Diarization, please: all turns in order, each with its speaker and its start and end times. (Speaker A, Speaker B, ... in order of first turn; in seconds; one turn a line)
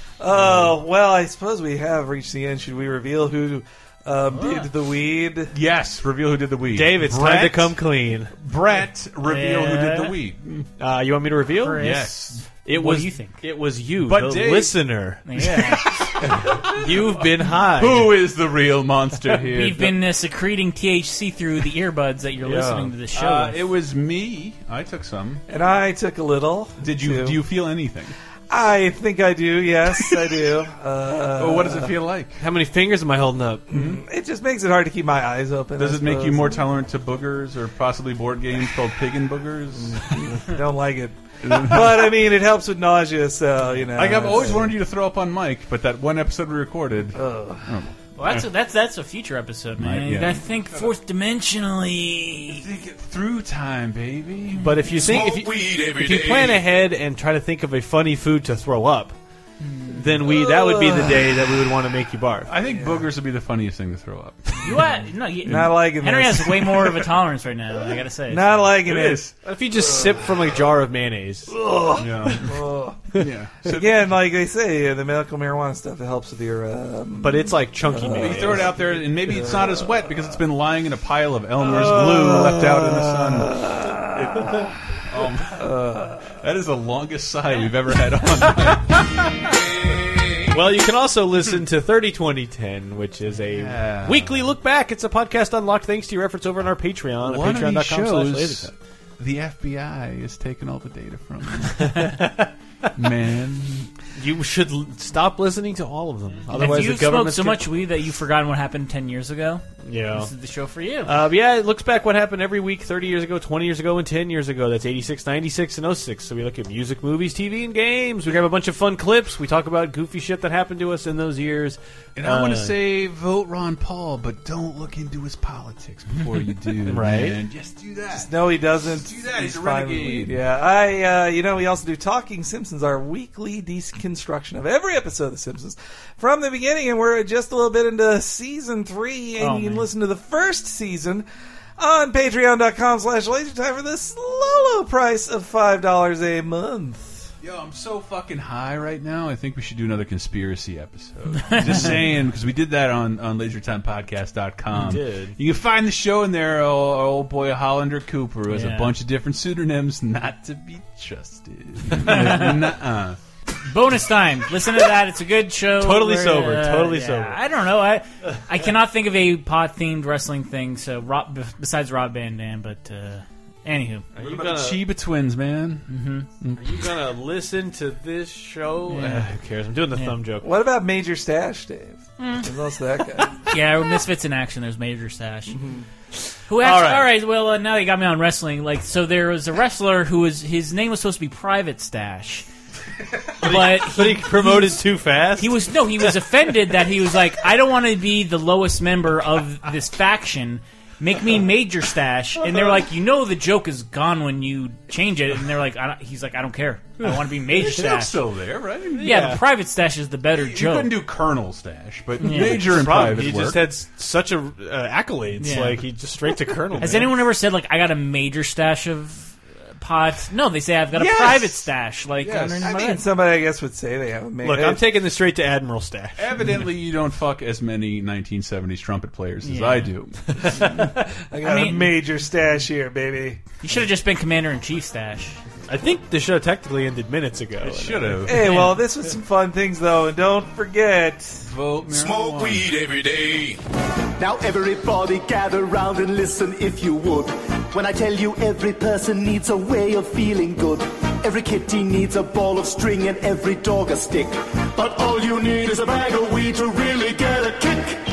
Speaker A: 0.2-5.5
Speaker B: 0.3-0.7
Speaker C: 4.4-4.7
Speaker B: 5.5-7.8
Speaker D: 6.7-8.3
Speaker B: 8.3-10.7
Speaker C: 9.2-10.1
Speaker D: 10.8-12.1
Speaker C: 11.6-13.4
Speaker B: 11.8-12.4
Speaker D: 12.6-15.7
Speaker B: 14.0-14.8
Speaker C: 15.2-16.0
Speaker B: 16.2-19.9
Speaker D: 16.5-18.2
Speaker C: 19.5-23.6
Speaker D: 22.4-22.9
Speaker B: 23.1-25.4
Speaker A: 25.5-27.4
Speaker B: 26.8-28.1
Speaker A: 28.5-31.9
Speaker B: 31.4-32.5
Speaker D: 32.4-33.7
Speaker A: 33.7-36.7
Speaker B: 35.8-40.5
Speaker A: 39.8-44.7
Speaker B: 41.4-41.9
Speaker B: 43.9-48.5
Speaker A: 47.1-47.6
Speaker C: 48.2-52.6
Speaker B: 49.8-50.9
Speaker B: 52.5-55.3
Speaker D: 54.6-59.1
Speaker E: 55.0-56.6
Speaker C: 59.6-60.1
Speaker D: 59.9-62.5
Speaker A: 60.6-61.1
Speaker B: 62.5-64.7
Speaker A: 62.6-63.0
Speaker C: 64.6-68.6
Speaker A: 65.4-66.8
Speaker A: 68.3-69.3
Speaker B: 68.8-69.3
Speaker D: 69.4-71.6
Speaker A: 71.5-73.0
Speaker B: 72.0-72.5
Speaker B: 73.1-74.0
Speaker A: 73.7-80.0
Speaker D: 77.2-78.8
Speaker B: 78.1-89.0
Speaker A: 81.7-84.5
Speaker A: 85.5-86.3
Speaker D: 90.5-98.7
Speaker B: 93.5-94.5
Speaker B: 97.2-102.2
Speaker D: 101.8-102.5
Speaker B: 103.0-103.9
Speaker D: 104.2-107.7
Speaker B: 106.5-106.8
Speaker C: 106.5-111.2
Speaker D: 109.8-110.3
Speaker D: 111.0-122.7
Speaker B: 122.2-128.3
Speaker D: 126.8-127.4
Speaker A: 128.1-141.2
Speaker B: 128.9-130.4
Speaker C: 139.4-139.9
Speaker A: 141.8-147.3
Speaker B: 147.4-163.2
Speaker C: 151.5-151.9
Speaker D: 154.7-155.4
Speaker C: 158.5-158.9
Speaker C: 162.0-162.7
Speaker C: 163.6-174.1
Speaker D: 165.8-167.4
Speaker D: 174.2-174.8
Speaker B: 174.2-175.9
Speaker C: 175.9-176.3
Speaker B: 176.4-176.7
Speaker D: 176.6-180.5
Speaker C: 178.9-179.2
Speaker A: 180.4-183.3
Speaker C: 182.2-182.5
Speaker C: 183.5-185.6
Speaker A: 185.5-185.8
Speaker C: 186.5-192.4
Speaker D: 186.6-187.1
Speaker C: 193.4-208.2
Speaker D: 193.4-195.7
Speaker B: 207.6-209.2
Speaker D: 208.9-209.4
Speaker C: 209.0-210.9
Speaker B: 210.3-213.7
Speaker C: 212.2-212.7
Speaker D: 212.2-217.2
Speaker C: 215.4-215.9
Speaker C: 216.8-223.0
Speaker B: 221.0-221.6
Speaker B: 222.2-222.7
Speaker A: 222.6-224.9
Speaker D: 224.4-226.5
Speaker B: 226.2-230.2
Speaker C: 229.4-229.9
Speaker D: 230.4-230.8
Speaker A: 231.2-233.4
Speaker C: 231.4-231.9
Speaker C: 233.6-235.4
Speaker D: 235.7-238.2
Speaker B: 237.6-238.5
Speaker A: 238.2-241.5
Speaker C: 238.4-238.8
Speaker B: 241.4-242.7
Speaker E: 241.8-243.6
Speaker F: 244.2-247.1
Speaker F: 248.5-254.3
Speaker F: 254.9-255.3